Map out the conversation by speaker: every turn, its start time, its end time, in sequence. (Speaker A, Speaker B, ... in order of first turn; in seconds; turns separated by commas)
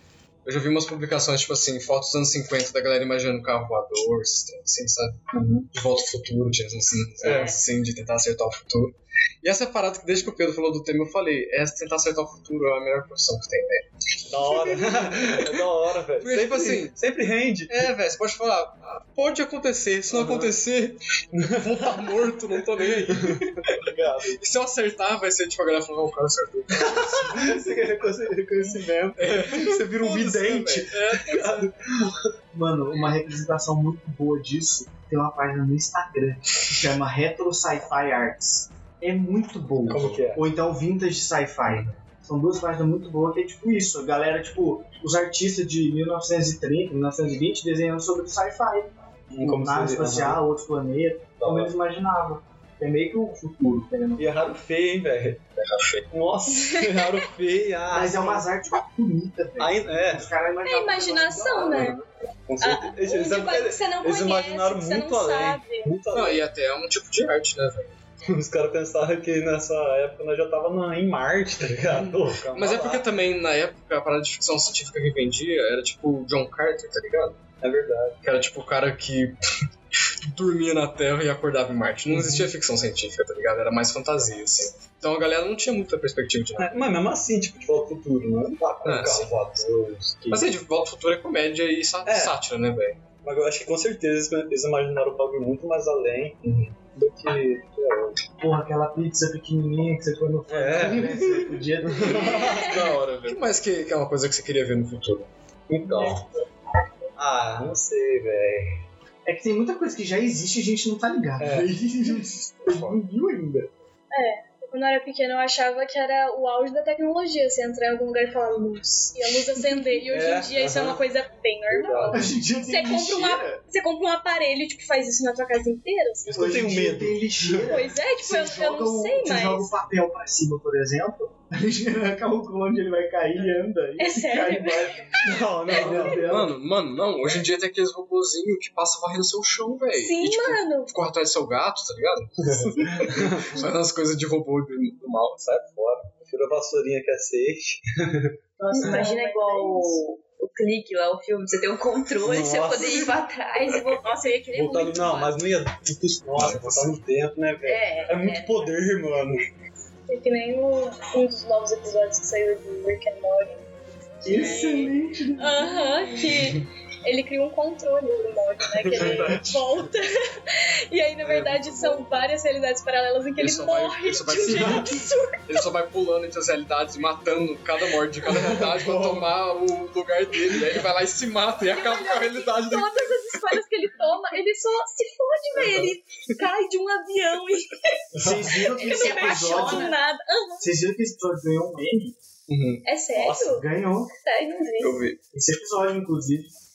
Speaker A: 0.5-13.9, Speaker B: 5.3-5.7, Speaker B: 7.2-7.6, Speaker B: 14.3-17.9, Speaker A: 14.4-15.5, Speaker A: 16.2-17.0, Speaker A: 17.7-23.7, Speaker B: 20.1-20.6, Speaker B: 21.3-22.1, Speaker B: 22.8-24.4, Speaker A: 24.3-27.6, Speaker B: 26.7-32.2, Speaker A: 29.2-31.7, Speaker C: 29.7-30.8, Speaker C: 32.5-54.4, Speaker B: 39.9-40.4, Speaker B: 49.3-50.4, Speaker B: 51.4-51.7, Speaker B: 54.2-55.4, Speaker A: 55.6-56.1, Speaker B: 56.1-58.5, Speaker D: 56.7-57.1, Speaker C: 57.9-62.0, Speaker B: 59.6-60.3, Speaker D: 60.6-62.0, Speaker B: 62.5-66.5, Speaker D: 62.6-65.9, Speaker A: 66.1-68.0, Speaker B: 68.3-73.1, Speaker A: 72.5-77.4, Speaker B: 77.6-78.2, Speaker A: 78.2-79.4, Speaker A: 80.3-86.9, Speaker B: 82.1-82.5, Speaker B: 86.6-90.5, Speaker A: 88.8-89.3, Speaker A: 90.3-93.0, Speaker B: 92.1-92.3, Speaker B: 93.2-96.4, Speaker A: 96.4-96.8, Speaker B: 97.0-98.2, Speaker C: 98.4-102.5, Speaker B: 100.5-102.9, Speaker D: 102.2-102.9, Speaker A: 102.4-105.3, Speaker B: 105.7-106.3, Speaker B: 107.2-108.8, Speaker C: 109.3-113.7, Speaker B: 111.4-111.7, Speaker B: 112.7-113.0, Speaker D: 114.1-126.5, Speaker B: 119.5-121.0, Speaker B: 121.7-122.3, Speaker C: 122.1-123.6, Speaker B: 126.2-127.7, Speaker C: 126.3-136.6, Speaker D: 127.7-129.7, Speaker D: 134.0-135.1, Speaker B: 135.2-136.3, Speaker D: 135.7-136.2, Speaker A: 136.3-145.5, Speaker D: 139.9-140.9, Speaker B: 142.4-143.6, Speaker B: 145.5-149.1, Speaker E: 148.6-155.5, Speaker D: 148.8-150.0, Speaker B: 152.2-153.2, Speaker B: 154.5-159.4, Speaker A: 156.4-157.0, Speaker E: 157.6-158.9, Speaker D: 160.1-163.7, Speaker C: 164.2-165.7, Speaker D: 164.3-175.6, Speaker B: 168.7-169.6, Speaker A: 169.0-169.6, Speaker A: 171.2-172.0, Speaker A: 173.4-183.4, Speaker B: 174.5-175.0, Speaker B: 178.3-179.3, Speaker D: 181.7-190.7, Speaker B: 185.6-185.9, Speaker C: 188.1-190.0, Speaker B: 188.2-188.5, Speaker E: 188.8-190.0, Speaker C: 190.6-192.2, Speaker A: 192.5-192.8, Speaker D: 192.8-193.7, Speaker B: 193.1-193.7, Speaker C: 193.5-194.1, Speaker D: 194.2-195.0, Speaker A: 194.8-195.2, Speaker C: 195.3-196.5